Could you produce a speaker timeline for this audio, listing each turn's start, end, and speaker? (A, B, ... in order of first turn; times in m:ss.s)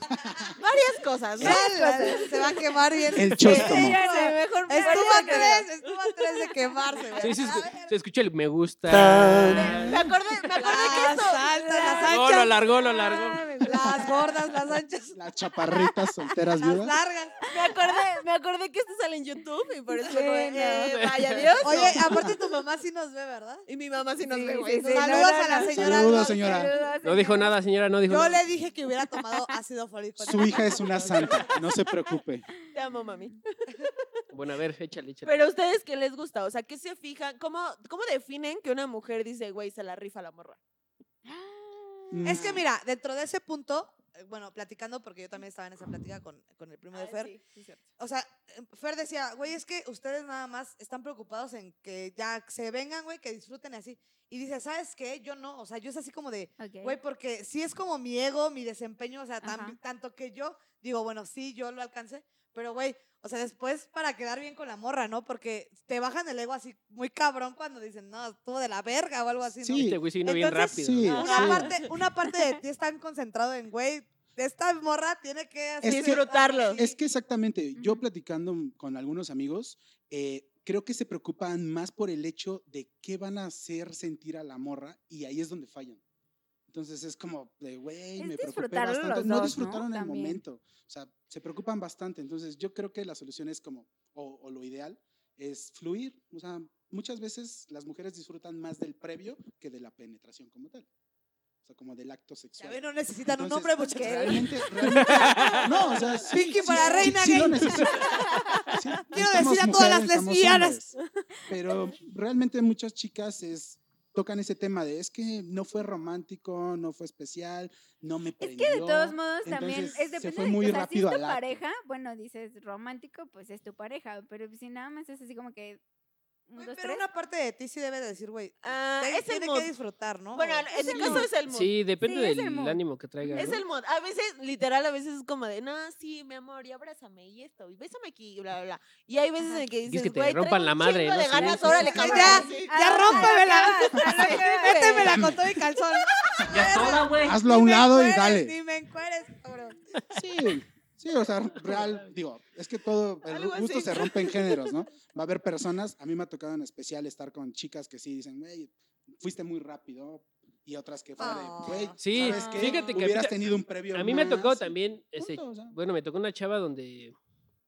0:00.6-0:02.6 A
0:01.4-0:07.9 B
0:01.4-0:02.6 C
0:03.1-0:04.0 D
0:03.4-0:07.6 A
0:03.4-0:05.6 C
0:07.2-0:10.0 E
0:09.6-0:12.1 A
0:10.6-0:12.6 B
0:10.6-0:14.3 C
0:12.0-0:13.6 E
0:13.6-0:15.2 B
0:15.1-0:16.9 D
0:16.6-0:17.4 B
0:17.5-0:22.3 A
0:17.7-0:18.0 C
0:20.0-0:20.9 C
0:20.9-0:21.6 E
0:21.6-0:23.6 B
0:23.7-0:25.6 A
0:24.2-0:27.6 C
0:24.8-0:26.8 B
0:25.7-0:26.7 D
0:27.0-0:28.4 E
0:28.1-0:31.4 B
0:30.2-0:32.4 D
0:30.9-0:31.6 A
0:32.7-0:34.2 A
0:34.3-0:35.4 E
0:35.2-0:40.6 A
0:41.2-0:42.4 C
0:42.1-0:42.6 D
0:42.2-0:47.3 B
0:46.9-0:47.9 A
0:48.0-1:17.0 B
0:56.6-0:57.0 C
0:59.4-0:59.8 C
1:09.6-1:10.0 D
1:09.8-1:11.4 E
1:10.8-1:11.7 D
1:11.1-1:11.9 A
1:15.8-1:26.0 D
1:15.8-1:16.8 A
1:17.8-1:18.0 C
1:26.7-1:40.9 D
1:28.2-1:30.4 C
1:41.6-1:50.9 D
1:42.6-1:50.8 B
1:43.9-1:45.5 C
1:45.0-1:45.6 E
1:48.0-1:48.5 C
1:51.5-2:01.6 D
1:58.4-2:05.8 C
2:06.5-2:07.0 C
2:06.6-2:11.3 B
2:08.6-2:09.7 A
2:10.3-2:11.7 A
2:10.7-2:11.2 C
2:11.0-2:13.6 E
2:12.0-2:13.6 C
2:13.4-2:23.2 A
2:19.9-2:22.3 E
2:21.6-2:25.2 C
2:21.8-2:29.8 B
2:24.2-2:25.2 A
2:25.0-2:25.4 D
2:26.3-2:27.0 A
2:26.6-2:27.2 E
2:27.2-2:28.5 D
2:30.1-2:45.8 D
2:31.6-2:32.0 E
2:33.2-2:34.7 A
2:41.2-2:42.0 B
2:42.0-2:47.1 E
2:42.2-2:42.9 C